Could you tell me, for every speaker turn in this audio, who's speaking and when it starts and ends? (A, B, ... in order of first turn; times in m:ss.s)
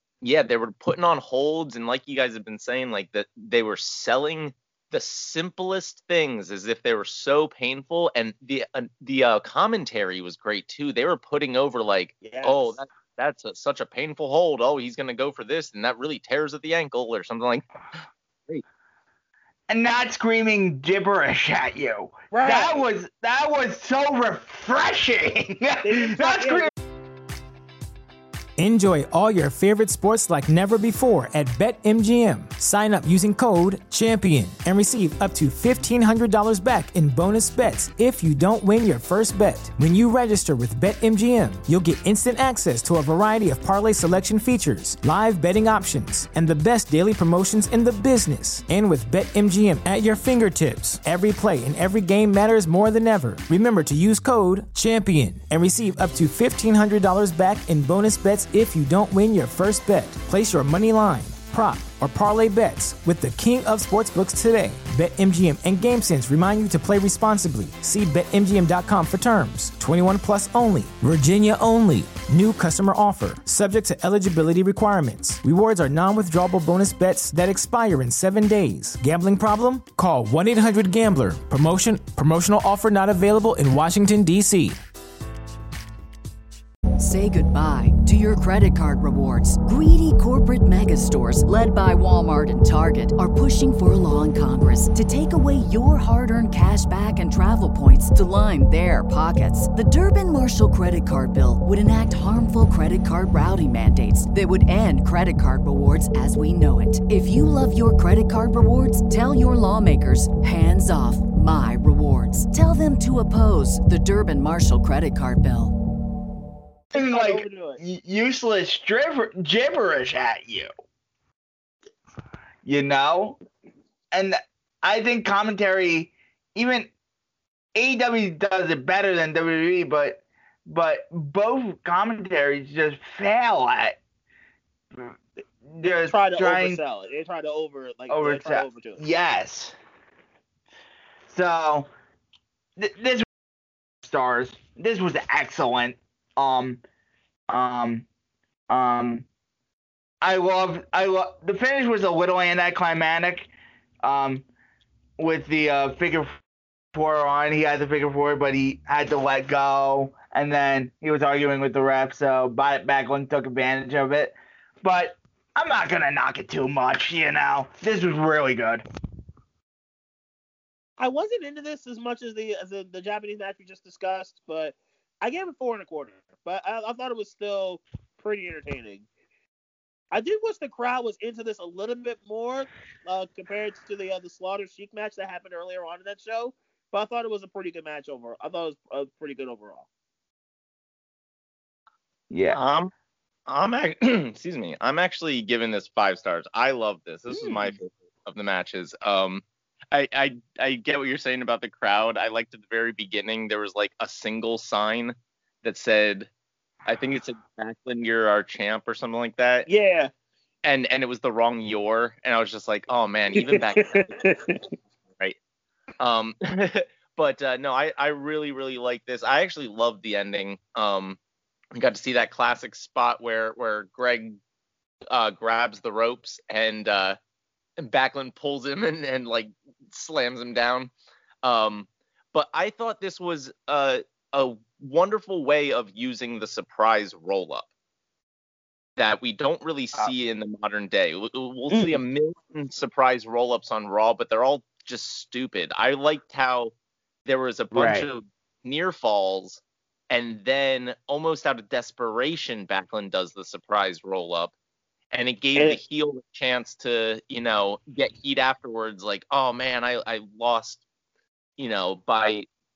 0:00.2-0:17.7 A
0:12.2-0:12.8 B
0:19.7-0:26.7 C
0:22.3-0:22.8 B
0:25.8-0:26.7 B
0:28.6-1:24.8 D
1:27.0-1:55.7 E
1:56.9-1:57.8 B
1:56.9-2:00.7 C
2:02.6-2:03.4 C
2:04.1-2:06.9 C
2:07.8-2:14.0 C
2:15.7-2:16.8 C
2:16.1-2:19.0 B
2:18.1-2:19.8 C
2:21.3-2:21.9 C
2:22.8-2:23.3 C
2:24.0-2:26.8 C
2:27.5-2:28.1 C
2:28.7-2:29.3 C
2:30.2-2:33.5 C
2:34.0-2:34.5 C
2:35.2-2:36.4 C
2:37.0-2:48.8 C
2:51.0-2:59.1 B
3:00.1-3:09.9 B
3:12.3-3:12.6 C
3:12.5-3:12.9 A
3:13.5-3:26.3 A
3:17.3-3:17.8 B
3:26.9-3:29.7 A
3:29.7-3:30.1 B
3:30.6-3:34.1 A
3:33.3-3:34.7 B
3:36.0-3:41.2 A
3:41.7-3:44.4 A
3:45.1-3:47.2 A
3:47.8-3:50.9 A
3:51.4-3:57.7 A
3:59.0-4:06.7 A
4:07.2-4:14.5 A
4:07.7-4:08.1 C
4:15.1-4:20.8 A
4:21.6-4:22.5 A